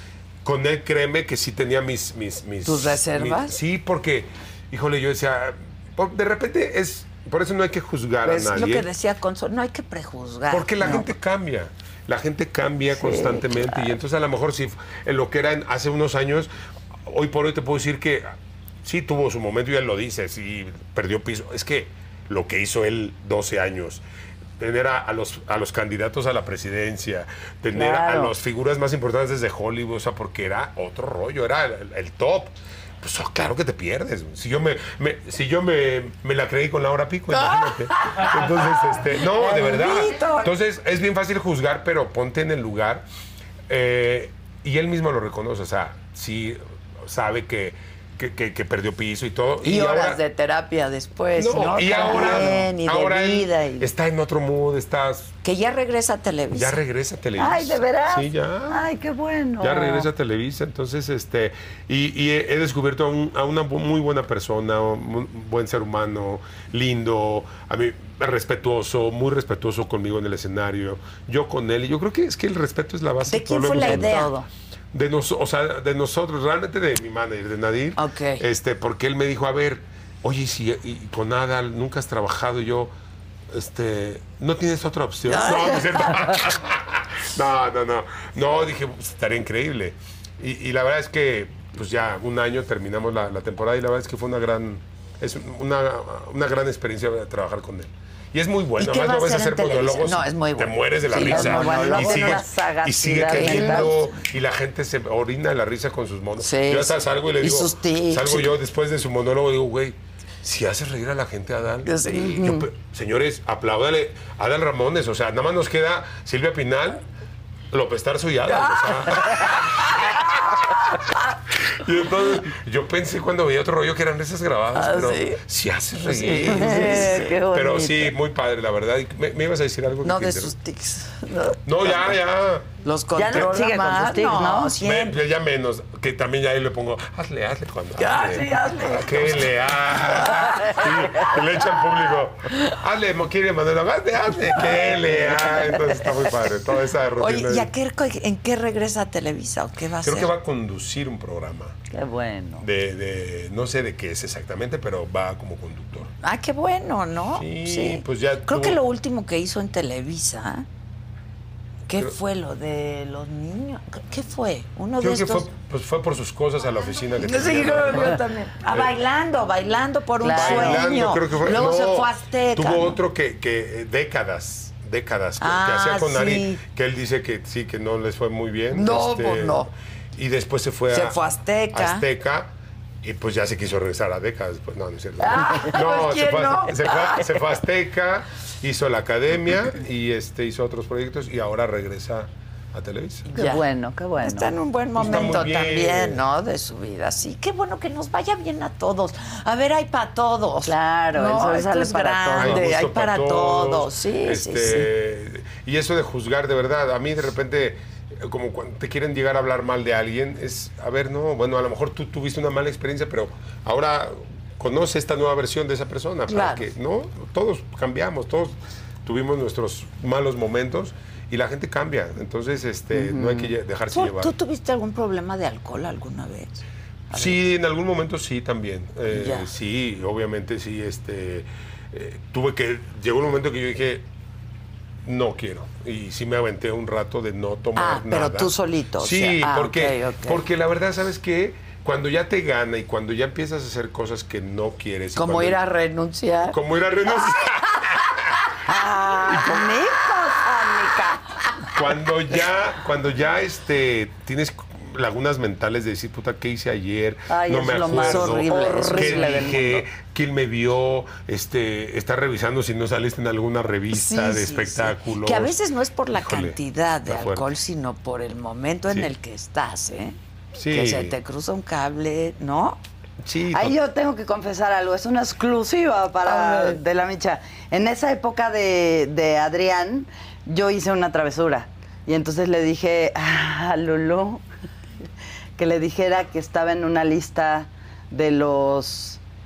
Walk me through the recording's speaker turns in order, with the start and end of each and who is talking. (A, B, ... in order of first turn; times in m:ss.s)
0:00.4-0:08.9 A
0:02.6-0:03.6 B
0:08.2-0:11.1 B
0:10.5-0:16.5 A
0:17.0-0:18.3 A
0:18.8-0:24.0 A
0:24.6-0:43.0 A
0:27.7-0:28.3 C
0:37.3-0:40.5 B
0:43.7-0:50.2 A
0:49.6-0:53.9 B
0:51.4-0:55.3 A
0:52.0-0:52.6 C
0:55.4-0:56.8 B
0:56.5-0:58.9 A
0:57.4-1:00.1 C
0:59.6-1:14.3 A
1:13.3-1:14.3 B
1:13.8-1:14.4 C
1:14.9-1:22.9 A
1:18.0-1:18.4 B
1:23.5-1:57.0 A
1:25.3-1:26.4 B
1:38.8-1:42.4 B
1:41.2-1:44.0 C
1:43.2-1:44.1 B
1:46.4-1:48.5 B
1:51.8-1:52.6 B
1:52.1-1:52.6 C
1:57.7-2:00.9 A
1:58.5-2:01.2 B
2:01.6-2:10.5 A
2:04.7-2:05.4 B
2:06.0-2:07.3 B
2:06.3-2:08.1 C
2:10.0-2:12.0 B
2:11.6-2:12.7 A
2:12.8-2:15.2 B
2:13.1-2:14.8 C
2:14.8-2:27.7 A
2:18.0-2:19.5 B
2:20.1-2:21.2 B
2:24.6-2:26.1 B
2:27.2-2:30.3 B
2:30.0-2:31.8 A
2:31.9-2:32.6 C
2:32.6-2:36.1 A
2:36.2-2:40.6 B
2:37.3-2:38.8 A
2:41.9-2:45.5 B
2:45.0-2:48.9 A
2:47.2-2:53.0 B
2:50.2-2:50.9 C
2:50.3-3:01.2 A
2:55.4-2:56.6 B
2:58.7-2:59.7 B
3:00.9-3:02.0 B
3:01.7-3:02.5 A
3:03.0-3:13.3 A
3:05.2-3:07.3 B
3:13.3-3:13.6 B
3:13.3-3:14.5 C
3:14.2-3:24.9 B
3:15.0-3:16.2 A
3:20.6-3:22.6 C
3:22.4-3:44.3 A
3:36.3-3:36.6 B
3:42.9-3:43.5 C
3:43.9-3:47.4 B
3:47.1-3:54.0 A
3:49.1-3:49.5 B
3:55.0-4:05.6 A
3:57.8-4:00.4 B
4:05.1-4:06.6 B
4:06.5-4:08.4 A
4:08.6-4:09.6 B
4:08.7-4:11.2 C
4:09.2-4:09.7 A
4:11.7-4:25.6 A
4:17.3-4:19.8 C
4:17.9-4:19.5 B
4:23.9-4:30.2 B
4:26.1-4:27.5 A
4:30.5-4:31.2 A
4:30.7-4:32.8 B
4:33.2-4:33.8 A
4:33.5-4:44.4 C
4:36.2-4:36.8 B
4:45.6-4:49.2 C